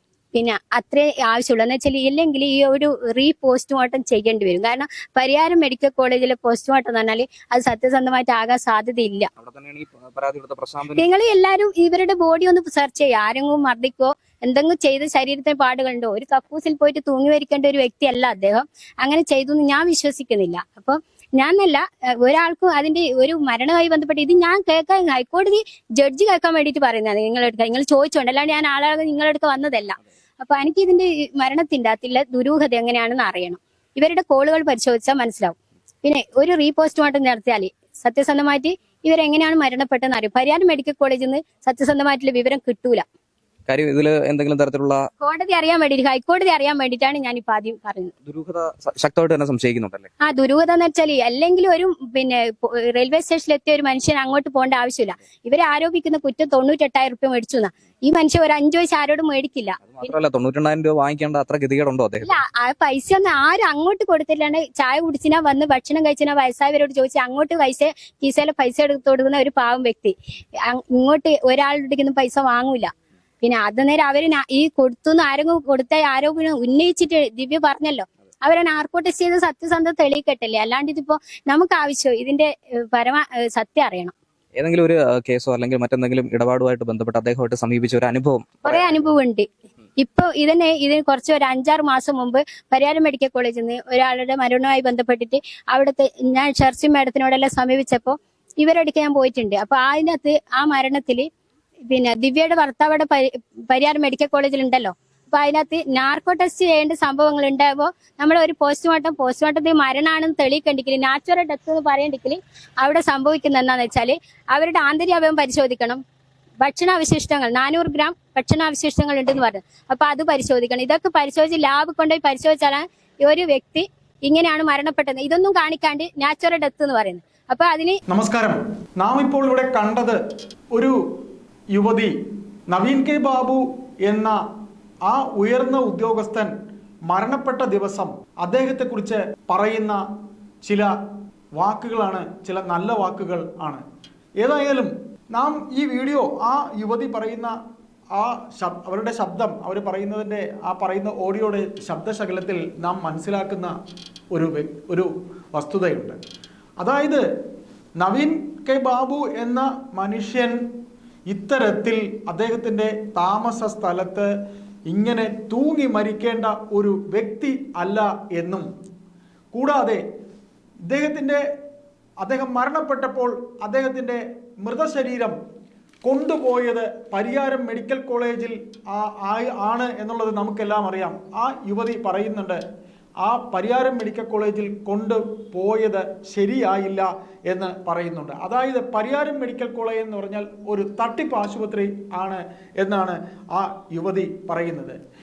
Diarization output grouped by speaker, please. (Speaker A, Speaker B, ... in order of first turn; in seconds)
Speaker A: 0.3-9.3, 10.9-43.0, 45.2-48.1, 50.2-60.1, 62.2-72.9, 73.4-84.1, 88.6-89.5, 90.0-101.3, 101.9-116.0, 116.6-128.0
Speaker B: 9.4-11.1, 43.7-45.0, 48.3-50.1, 60.0-62.3, 84.6-88.9
Speaker C: 128.1-130.2, 131.7-132.1, 132.7-134.4, 135.1-136.5, 137.1-140.0, 140.6-140.9, 141.6-143.8, 144.4-147.6, 148.1-153.7, 154.3-156.2, 156.8-157.2, 158.0-160.6, 161.3-164.3, 164.9-168.7, 169.5-170.0, 170.9-171.4, 172.2-175.3, 176.0-182.6, 183.2-195.0